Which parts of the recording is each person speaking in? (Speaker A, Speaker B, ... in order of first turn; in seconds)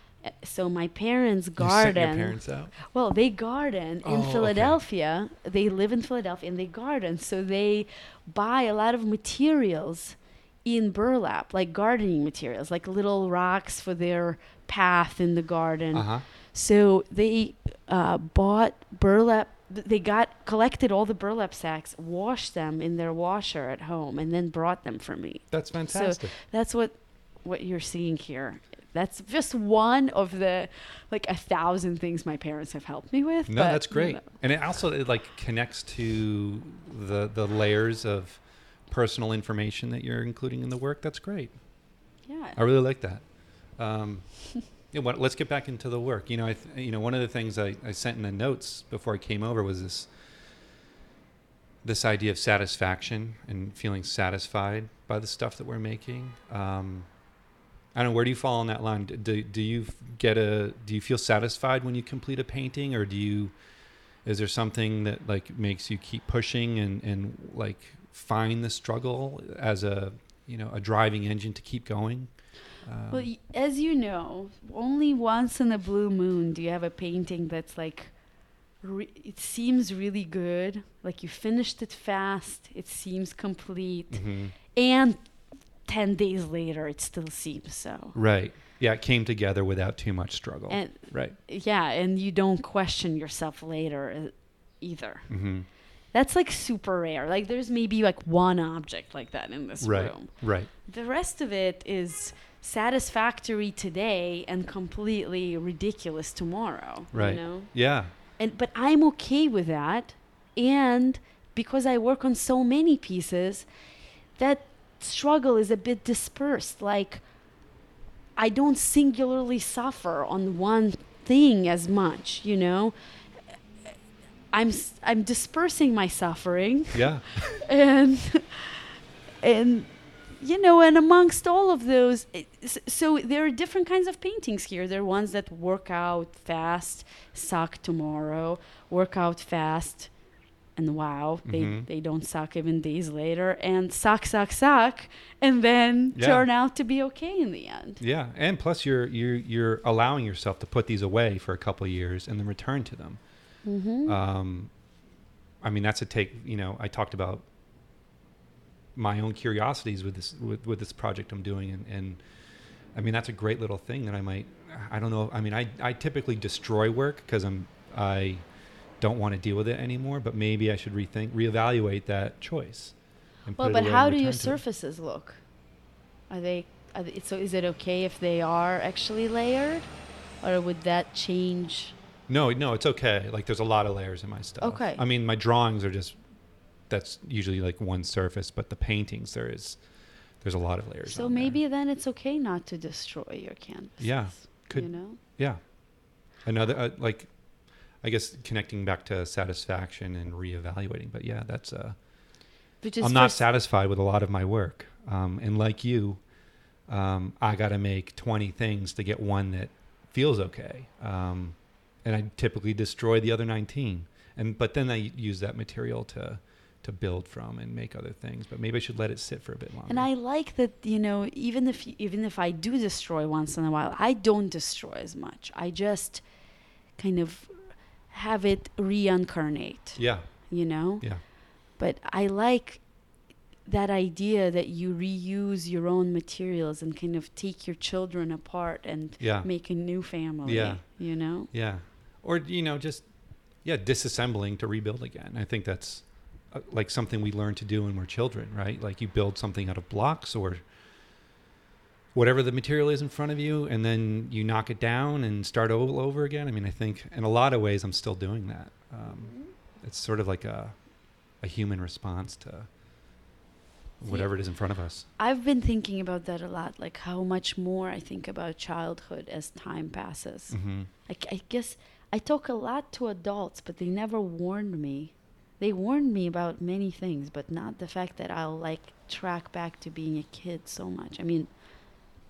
Speaker A: 0.2-34.3, 42.3-42.6, 73.1-78.2, 78.8-88.2, 90.7-113.7, 114.4-117.2, 118.4-123.0, 124.5-140.1, 140.8-148.0, 153.6-154.2, 173.6-175.4, 176.3-181.9, 184.6-185.0, 191.1-195.2, 202.8-203.5, 219.9-226.2, 226.9-232.9, 233.6-241.5, 259.1-259.5, 264.1-264.5, 265.1-281.5
Speaker B: 1.6-2.7, 4.0-4.8, 15.9-16.3, 25.5-26.3, 33.5-41.6, 42.6-50.1, 51.8-57.1, 57.9-63.5, 64.2-73.3, 84.1-84.6, 88.1-91.4, 95.3-95.7, 99.8-100.7, 107.1-108.1, 126.9-127.4, 141.4-141.9, 146.1-146.4, 148.0-153.2, 154.1-154.7, 155.6-157.4, 158.9-162.2, 162.9-168.5, 169.0-174.6, 182.3-186.2, 186.8-191.6, 194.0-202.0, 203.0-206.3, 206.9-220.1, 230.0-231.2, 239.2-250.7, 252.1-262.7, 264.0-265.1, 270.5-270.9